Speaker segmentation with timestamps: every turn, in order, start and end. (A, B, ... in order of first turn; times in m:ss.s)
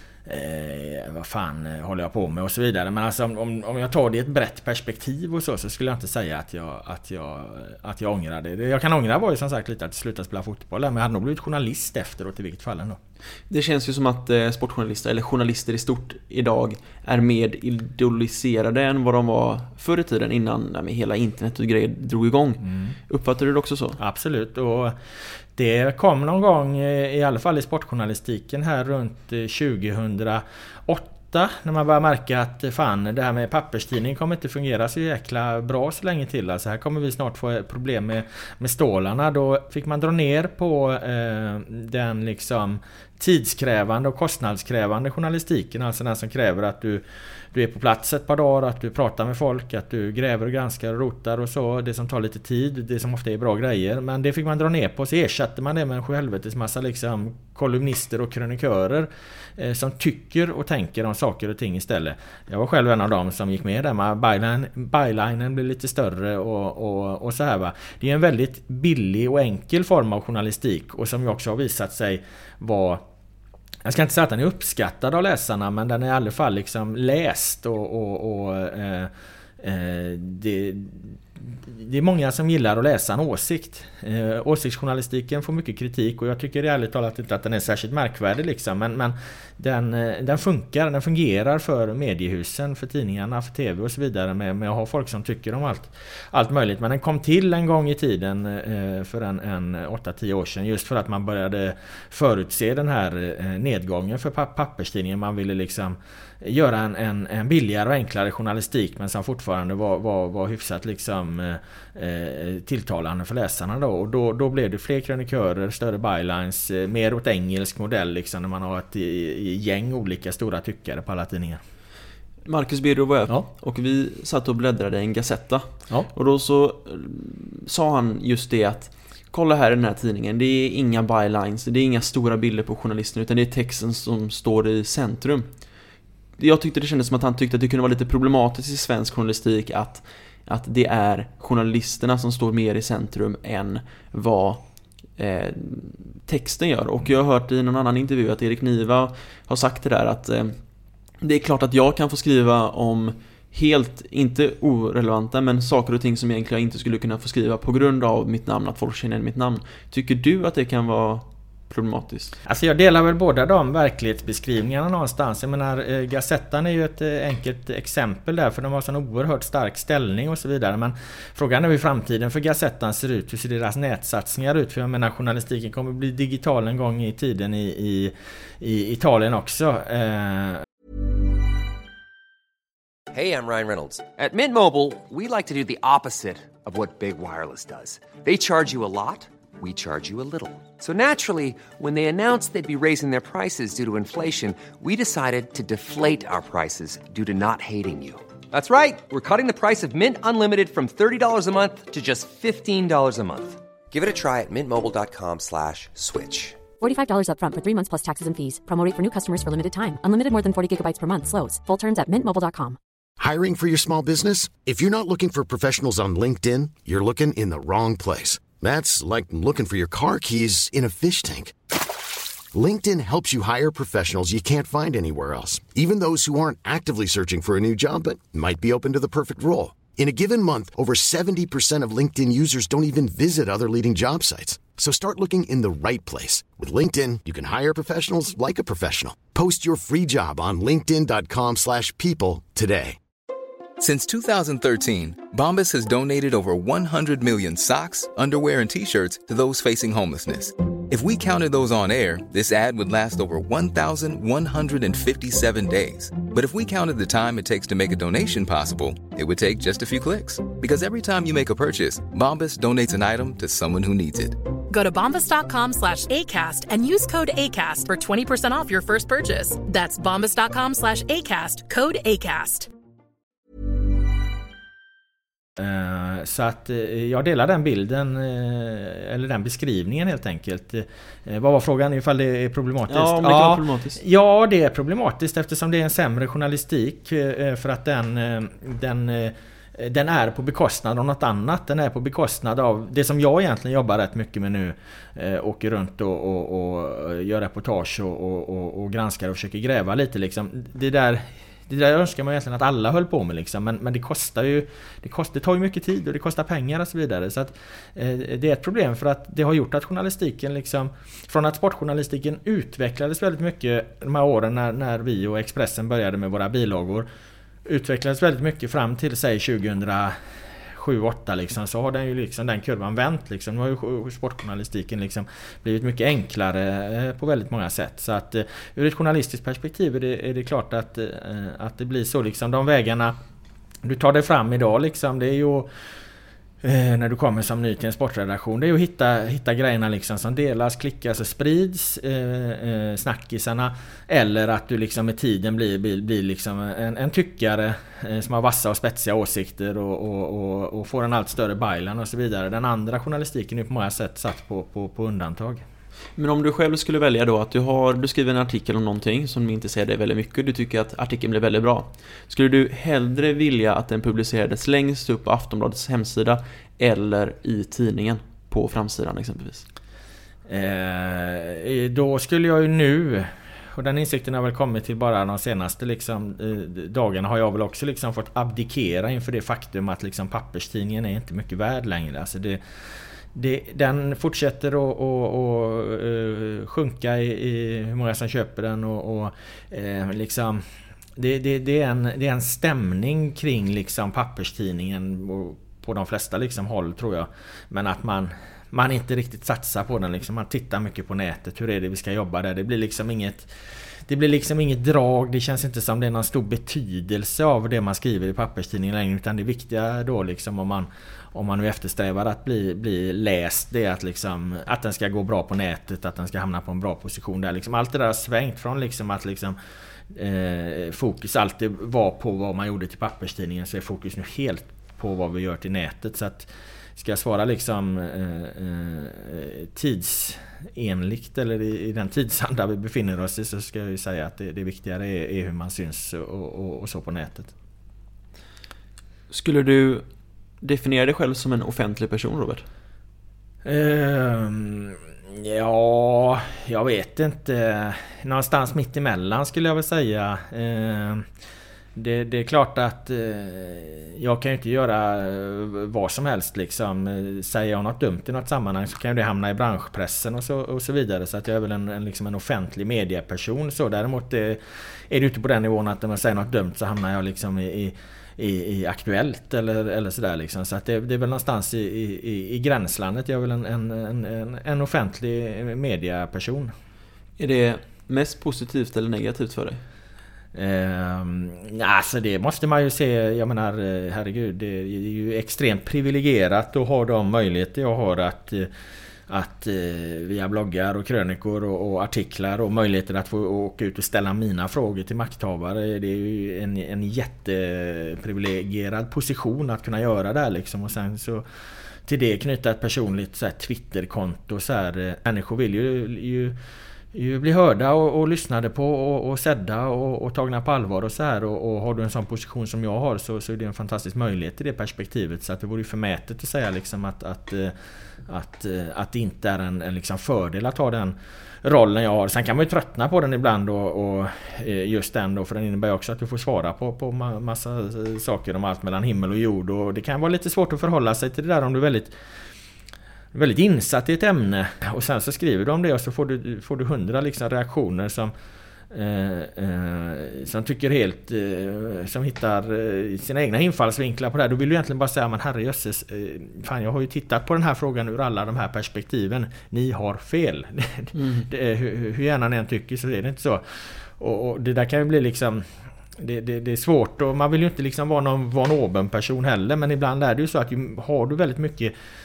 0:00.2-0:13.0 A
0:13.5-0:24.0 B
0:22.6-0:22.9 A
0:24.0-0:25.0 A
0:25.6-1:13.0 A
1:13.8-2:01.6 A
2:02.4-2:15.5 B
2:16.4-2:30.6 B
2:31.2-2:42.4 B
2:42.4-3:00.6 A
3:03.1-3:26.6 C
3:26.8-3:32.8 D
3:33.2-3:41.5 E
3:42.5-4:03.0 E
4:03.8-4:24.4 F
4:24.7-4:32.7 G
4:35.6-5:17.1 A
4:42.9-4:44.0 B
5:17.6-5:20.2 A
5:20.7-5:33.1 A
5:33.8-5:35.7 A
5:36.6-5:55.6 A
5:56.2-6:09.6 B
6:10.5-6:22.6 A
6:23.3-6:30.6 A
6:31.2-6:43.5 A
6:44.1-6:59.6 A
7:00.1-7:17.5 A
7:19.3-7:20.0 B
7:20.6-7:22.6 B
7:23.6-7:31.2 A
7:32.0-7:56.7 A
7:57.4-7:59.8 B
8:00.5-8:08.7 A
8:09.3-8:21.4 A
8:22.1-8:26.5 A
8:27.1-8:37.7 A
8:38.3-8:52.1 A
8:53.3-8:58.3 A
8:58.9-9:15.6 A
9:11.1-9:11.5 B
9:16.2-9:21.9 A